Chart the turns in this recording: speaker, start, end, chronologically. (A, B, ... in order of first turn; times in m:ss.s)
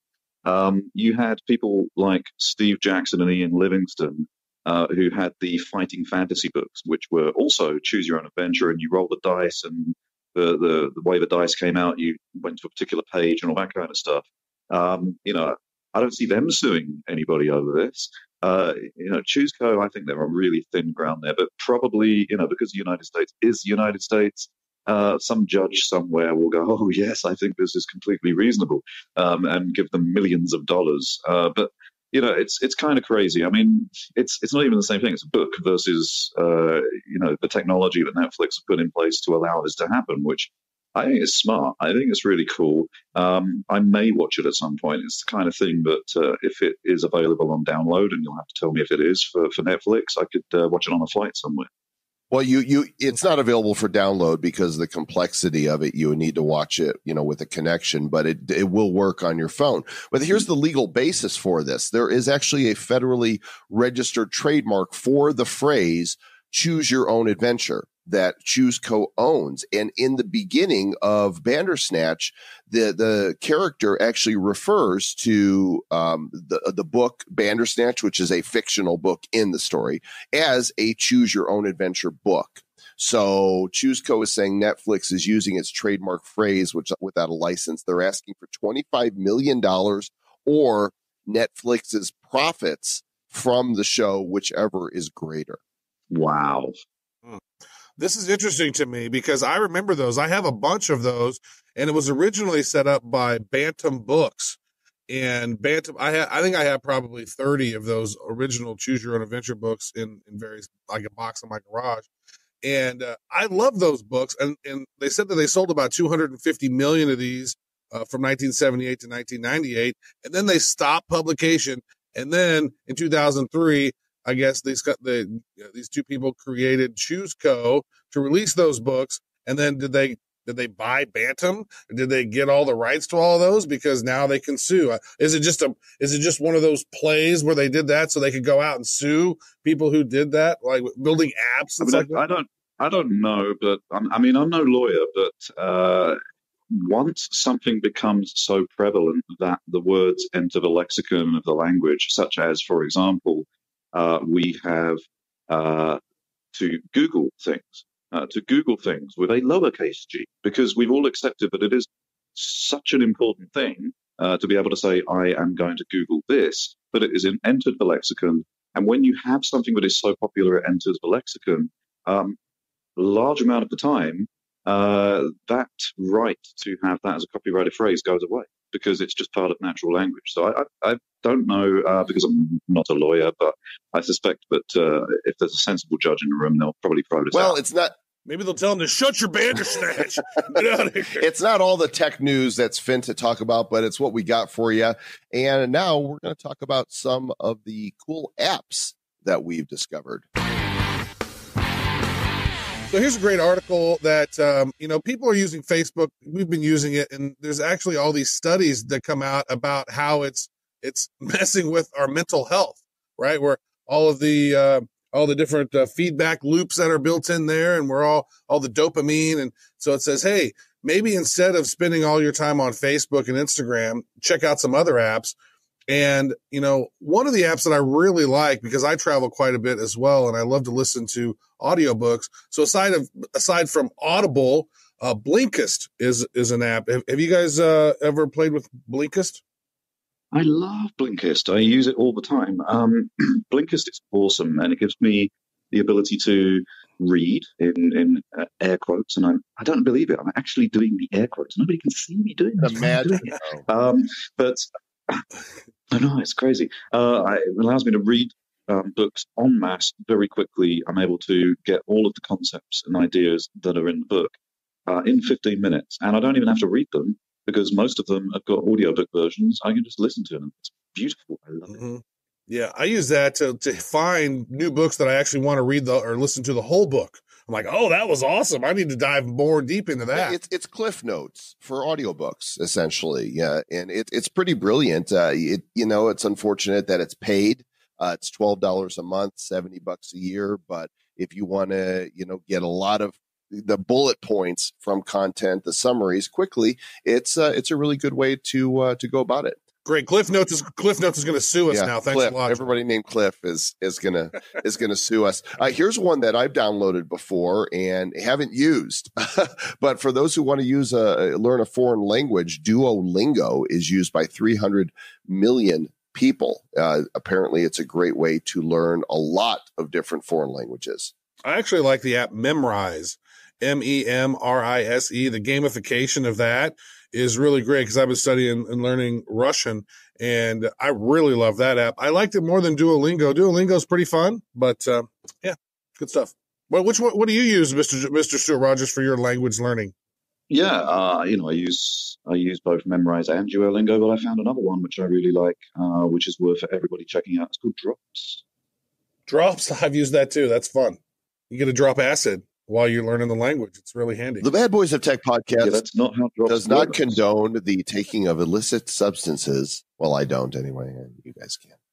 0:00.4-0:51.7 A
0:52.3-1:35.6 B
1:36.1-1:36.7 A
1:38.0-1:52.1 C
1:52.6-2:22.2 C
2:21.8-2:26.2 A
2:26.7-2:36.0 A
2:36.5-2:52.4 A
2:53.0-3:07.6 A
3:07.3-3:07.9 B
3:08.2-3:11.2 C
3:11.2-3:20.2 B
3:22.9-3:45.3 C
3:45.9-3:59.4 C
4:00.3-4:15.2 A
4:12.6-4:13.6 B
4:15.9-4:24.3 A
4:24.9-4:31.8 A
4:31.7-4:40.4 C
4:40.1-4:59.6 B
4:59.8-5:02.7 C
5:01.7-5:21.1 B
5:21.4-5:39.9 C
5:40.5-5:48.4 A
5:49.3-5:51.0 C
5:51.5-5:54.5 C
5:54.4-5:55.8 B
5:55.6-5:57.2 A
5:56.4-6:01.7 B